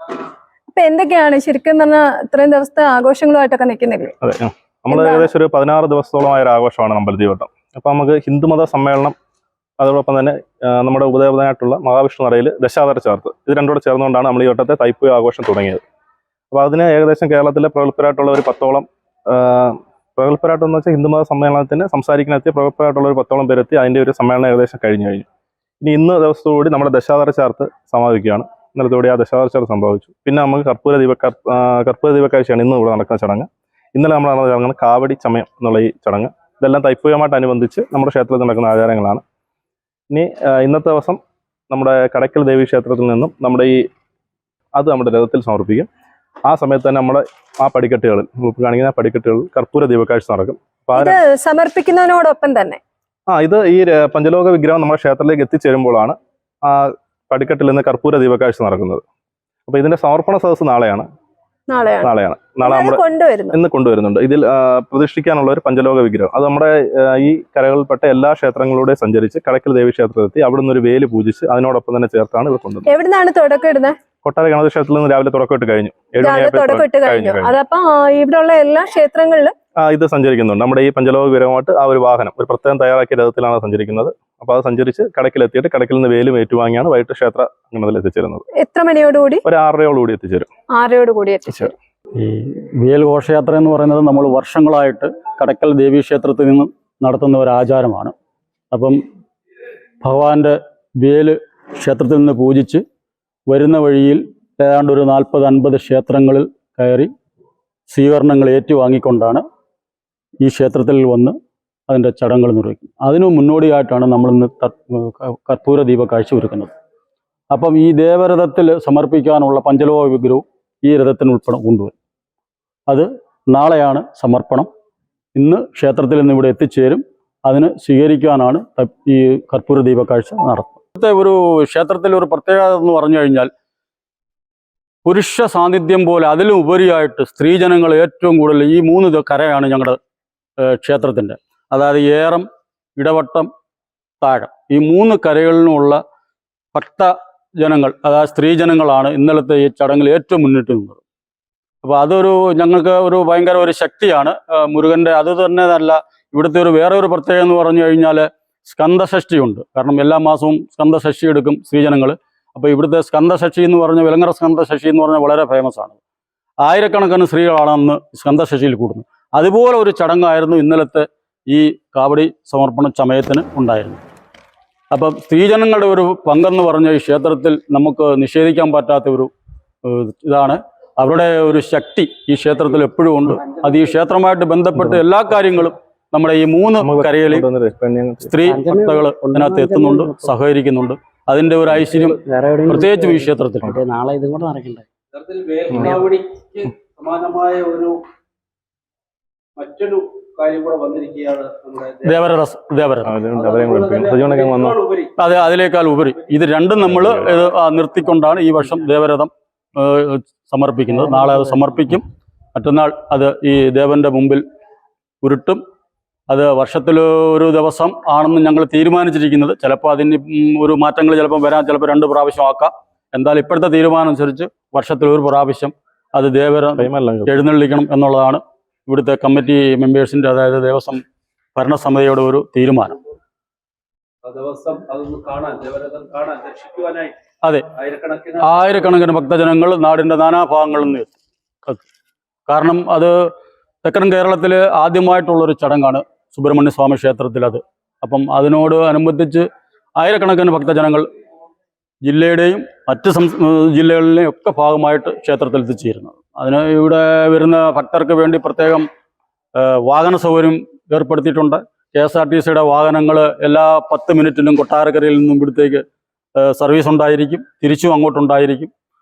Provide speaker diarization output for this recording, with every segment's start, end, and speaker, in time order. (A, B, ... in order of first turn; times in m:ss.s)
0:00.7-0:04.1 A
0:04.2-0:09.2 B
0:04.9-0:05.3 A
0:09.8-0:15.8 B
0:16.5-0:25.3 B
0:25.8-0:39.2 B
0:40.1-0:41.2 B
0:41.7-0:43.8 B
0:44.8-0:45.9 B
0:46.5-0:51.2 B
0:51.0-0:52.8 A
0:53.3-0:56.2 B
0:56.7-0:59.0 B
0:59.7-1:01.1 B
1:01.7-1:02.1 A
1:02.0-1:12.9 B
1:02.6-1:03.6 A
1:12.9-1:14.0 A
1:14.2-1:17.5 B
1:16.2-1:19.5 A
1:19.8-1:28.4 B
1:28.6-1:29.4 A
1:29.4-1:30.5 B
1:30.7-1:31.7 A
1:32.2-1:38.1 C
1:38.7-1:39.0 C
1:40.0-1:42.8 C
1:43.5-1:47.1 C
1:47.9-1:49.4 C
1:50.4-1:51.4 C
1:51.9-1:56.7 C
1:57.5-2:01.9 C
2:02.9-2:04.7 C
2:05.4-2:13.5 C
2:15.0-2:20.0 C
2:20.6-2:22.5 C
2:23.0-2:23.5 C
2:24.2-2:26.0 C
2:26.7-2:31.0 C
2:31.8-2:46.0 C
2:46.6-2:54.0 C
2:54.9-2:59.3 C
2:59.8-3:07.5 C
3:06.8-3:08.4 B
3:08.3-3:13.8 C
3:08.5-3:10.3 D
3:12.1-3:13.1 D
3:13.7-3:14.8 D
3:15.1-3:18.0 E
3:19.6-3:22.3 E
3:22.0-3:23.2 C
3:23.0-3:24.8 B
3:23.3-3:25.2 E
3:25.2-3:32.0 C
3:27.0-3:27.2 B
3:32.6-3:34.4 C
3:35.2-3:35.6 C
3:36.3-3:51.0 C
3:46.8-3:47.3 B
3:51.6-3:53.0 C
3:54.2-3:57.2 E
3:57.8-3:58.8 E
3:58.4-4:01.1 C
4:02.5-4:03.2 C
4:03.8-4:09.4 C
4:10.0-4:11.1 C
4:12.0-4:18.9 C
4:19.6-4:25.8 C
4:26.4-4:28.7 C